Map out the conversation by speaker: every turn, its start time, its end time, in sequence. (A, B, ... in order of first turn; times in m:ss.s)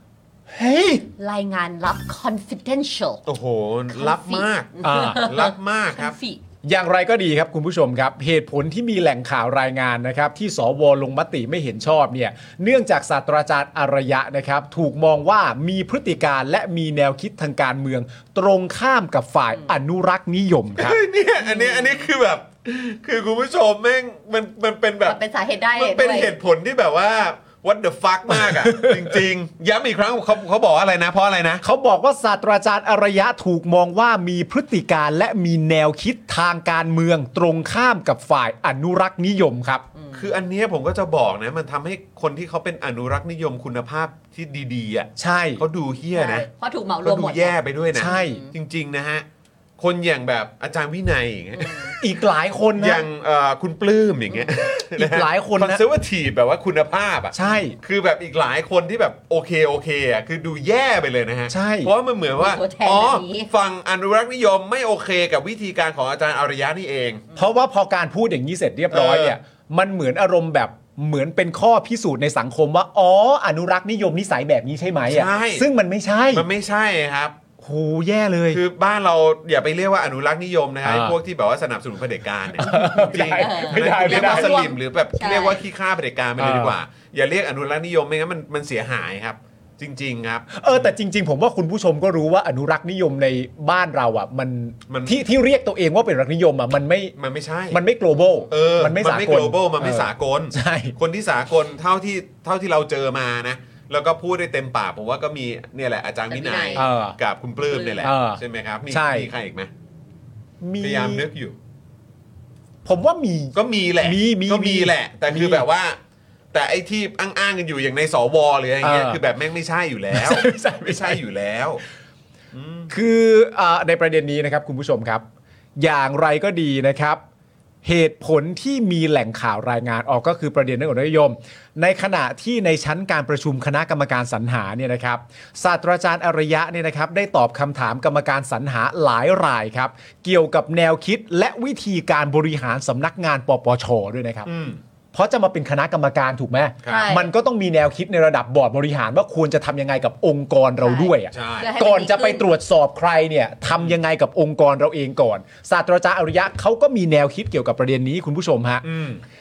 0:00.5-0:01.0 A
0:01.2-0:03.2 B
0:03.3-0:06.2 C
0:03.9-0:06.4 B
0:04.8-0:05.3 A
0:06.6-0:21.0 A
0:20.8-0:25.2 C
0:21.4-0:22.1 B
0:25.0-0:26.3 B
0:25.8-0:31.6 C
0:28.3-0:29.2 A
0:31.6-0:39.8 A
0:39.9-0:40.3 B
0:40.1-0:46.5 C
0:45.2-0:45.6 A
0:46.1-0:48.5 B
0:47.0-0:49.3 C
0:48.0-0:48.4 A
0:49.8-0:52.0 C
0:51.6-0:51.9 B
0:52.0-0:53.1 A
0:52.8-1:07.2 C
0:54.3-0:54.6 B
0:55.0-0:55.8 A
0:57.3-0:57.8 A
1:01.5-1:01.9 A
1:02.4-1:03.5 B
1:07.4-1:16.5 A
1:08.9-1:09.4 C
1:15.0-1:15.6 C
1:16.3-1:17.4 C
1:17.6-1:18.6 A
1:18.5-1:30.9 C
1:20.8-1:21.2 A
1:22.6-1:24.6 A
1:22.7-1:25.6 B
1:26.4-1:26.8 A
1:30.5-1:37.1 A
1:34.9-1:35.2 C
1:37.2-1:37.8 C
1:37.7-1:41.0 A
1:38.1-1:38.5 B
1:38.5-1:49.7 C
1:46.3-1:46.9 B
1:46.8-1:47.2 A
1:47.7-1:48.1 B
1:48.0-1:49.3 A
1:50.6-1:51.3 A
1:50.8-1:51.6 C
1:52.8-1:55.7 A
1:53.6-1:56.0 C
1:56.5-2:01.8 C
1:58.8-1:59.2 A
2:00.1-2:01.2 A
2:02.5-2:02.9 C
2:02.9-2:05.2 A
2:05.8-2:07.2 A
2:07.8-2:24.5 A
2:24.4-2:24.8 C
2:25.1-2:38.8 A
2:26.8-2:27.1 C
2:26.9-2:27.3 B
2:30.8-2:32.5 B
2:31.3-2:31.7 C
2:38.8-2:39.2 C